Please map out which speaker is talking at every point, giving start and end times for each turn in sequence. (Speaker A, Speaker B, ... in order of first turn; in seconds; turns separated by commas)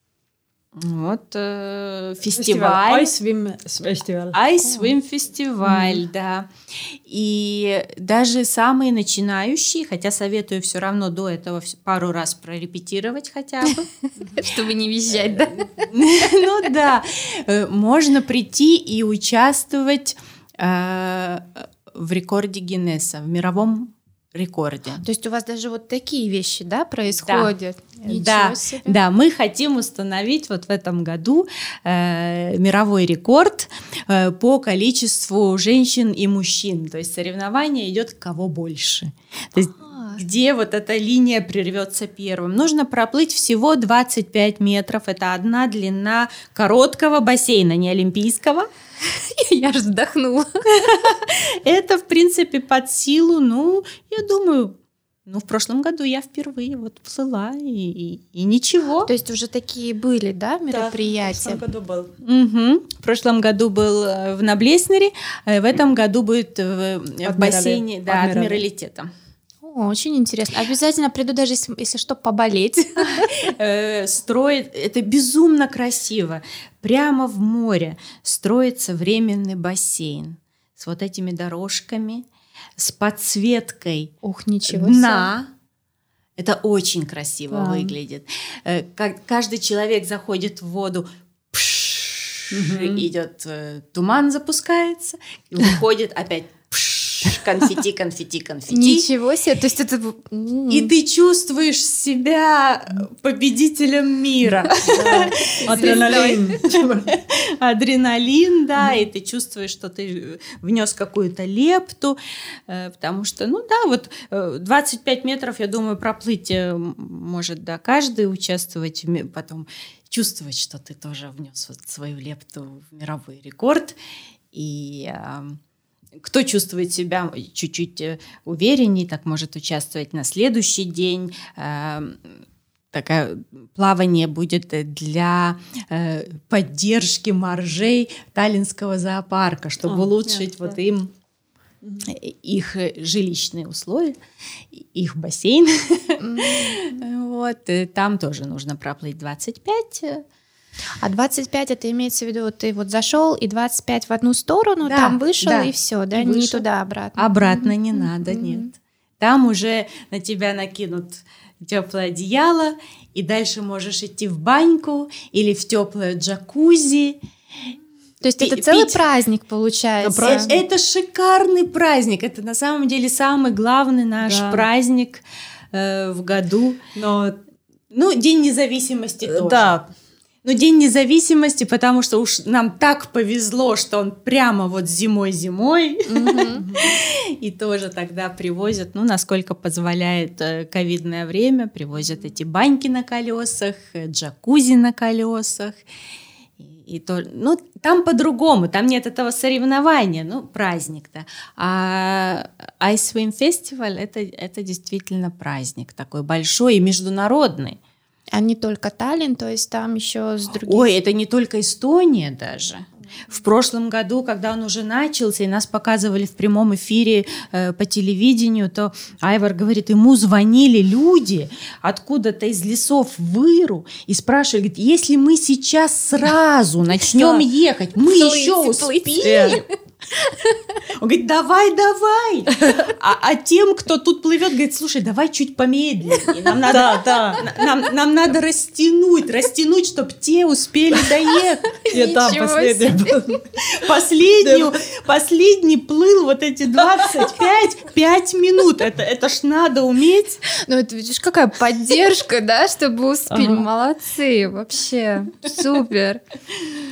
Speaker A: 0.8-3.1, Speaker B: 2.3-4.4, Speaker A: 4.3-13.9, Speaker B: 5.6-6.0, Speaker C: 14.3-15.9, Speaker A: 15.8-25.0, Speaker C: 25.0-29.0, Speaker A: 27.2-48.7, Speaker C: 39.8-40.2, Speaker C: 49.1-50.5, Speaker A: 50.7-59.1, Speaker C: 59.0-61.6, Speaker B: 60.7-62.1, Speaker A: 62.2-69.1, Speaker B: 67.2-68.6, Speaker C: 69.6-73.4, Speaker A: 73.1-82.2, Speaker A: 82.8-84.1, Speaker C: 84.2-85.3, Speaker A: 84.7-85.5, Speaker A: 86.4-99.1, Speaker B: 87.5-88.0, Speaker B: 92.5-93.1, Speaker C: 98.7-100.9, Speaker A: 100.7-124.0, Speaker C: 104.8-106.6, Speaker B: 104.9-107.1, Speaker A: 124.5-125.6, Speaker A: 126.2-132.4, Speaker A: 132.9-141.1, Speaker B: 139.8-140.8, Speaker B: 141.8-142.1, Speaker A: 142.0-144.2, Speaker A: 144.7-150.2, Speaker C: 146.2-146.8, Speaker C: 151.0-158.7, Speaker A: 154.8-156.7, Speaker A: 157.2-167.2, Speaker C: 168.2-170.5, Speaker A: 168.4-169.0, Speaker B: 170.0-170.6, Speaker A: 170.2-176.9, Speaker B: 174.2-174.7, Speaker B: 176.9-177.4, Speaker A: 177.9-179.8, Speaker B: 179.2-179.9, Speaker A: 180.4-195.8, Speaker C: 186.1-186.7, Speaker B: 186.6-187.0, Speaker A: 196.6-207.8, Speaker C: 208.3-210.9, Speaker A: 210.5-229.6, Speaker B: 227.1-227.4, Speaker C: 228.0-229.7, Speaker B: 229.2-229.6, Speaker C: 230.2-230.7, Speaker A: 231.0-241.7, Speaker B: 232.6-232.9, Speaker B: 236.6-237.5, Speaker C: 241.8-243.2, Speaker B: 241.9-243.4, Speaker A: 243.7-250.4, Speaker B: 244.4-244.7, Speaker C: 250.5-256.2, Speaker B: 253.3-253.7